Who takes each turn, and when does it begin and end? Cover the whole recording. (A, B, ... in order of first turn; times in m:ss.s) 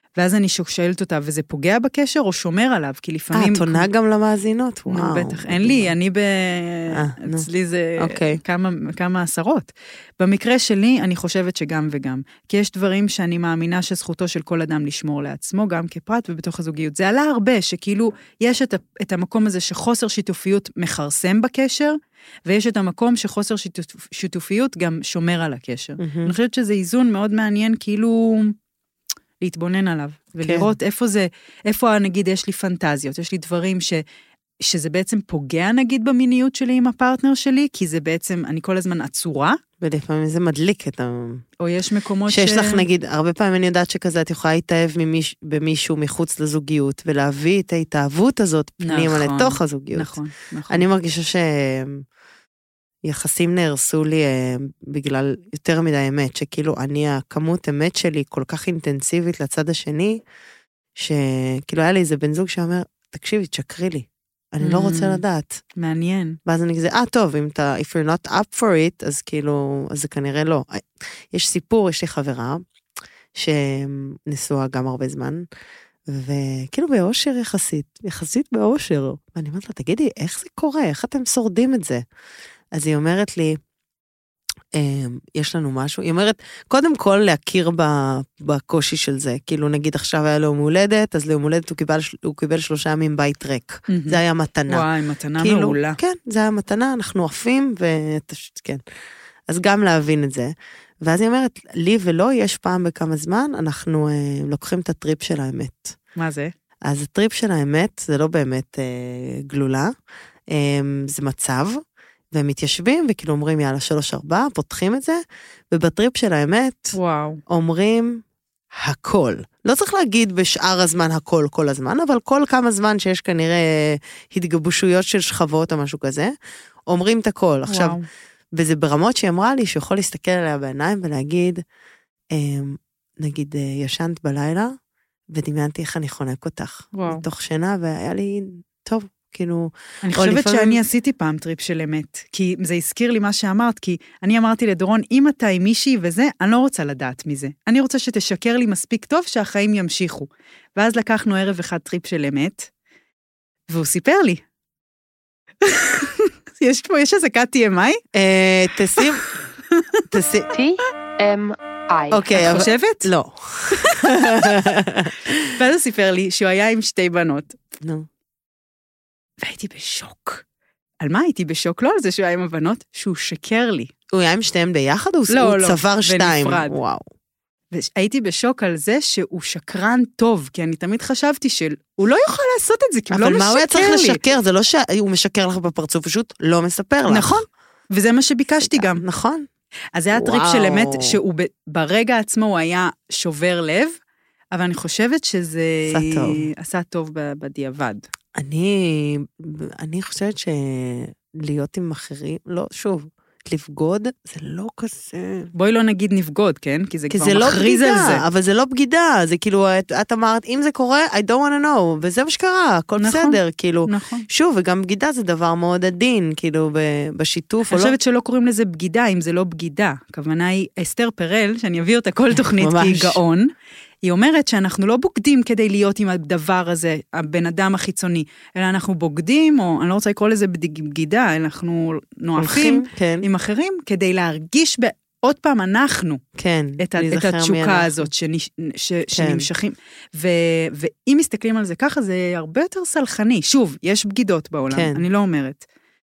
0:00.2-0:03.9 A
0:03.3-0:05.9 B
0:04.9-0:28.5 A
0:06.9-0:07.5 B
0:08.0-0:08.4 B
0:26.0-0:26.3 B
0:29.4-0:34.0 A
0:30.4-0:30.7 B
0:34.6-0:39.6 A
0:39.8-0:41.4 B
0:41.6-0:42.8 A
0:42.3-0:50.2 B
0:48.8-0:50.8 A
0:50.7-0:52.0 B
0:53.0-1:00.2 B
1:00.9-1:05.6 B
1:04.6-1:05.2 A
1:05.8-1:06.4 A
1:06.4-1:12.6 B
1:13.3-1:15.4 B
1:16.1-1:22.0 B
1:22.7-1:23.6 B
1:24.7-1:34.8 B
1:33.9-1:36.0 A
1:35.4-1:38.8 B
1:39.5-1:46.0 B
1:46.2-1:46.5 A
1:46.8-1:49.9 B
1:50.5-2:06.3 B
1:56.9-1:57.4 A
2:06.9-2:08.0 B
2:07.7-2:08.1 A
2:08.5-2:11.6 B
2:12.3-2:14.7 B
2:15.3-2:20.8 B
2:16.9-2:17.2 A
2:20.0-2:32.7 A
2:33.7-2:34.4 A
2:35.6-2:38.0 A
2:38.1-2:39.2 B
2:39.7-2:40.0 A
2:40.1-2:40.5 B
2:40.5-2:42.7 C
2:42.1-2:45.5 B
2:42.3-2:43.1 A
2:43.7-2:44.1 A
2:45.5-2:47.6 A
2:47.8-2:48.1 B
2:49.4-2:50.4 A
2:51.0-2:53.9 A
2:54.1-2:57.0 B
2:55.3-2:56.8 A
2:57.7-3:04.2 A
3:03.1-3:07.4 B
3:07.1-3:09.0 A
3:08.6-3:09.5 B
3:09.9-3:13.9 A
3:10.1-3:11.2 B
3:14.5-3:18.0 A
3:15.9-3:16.5 B
3:18.4-3:25.5 B
3:25.5-3:28.2 A
3:27.1-3:38.0 B
3:33.0-3:34.3 A
3:37.7-3:43.5 A
3:42.3-3:43.2 B
3:44.0-3:56.2 A
3:52.4-3:53.3 B
3:56.4-3:58.1 B
3:56.8-4:05.6 A
3:59.1-3:59.5 B
4:04.7-4:05.0 B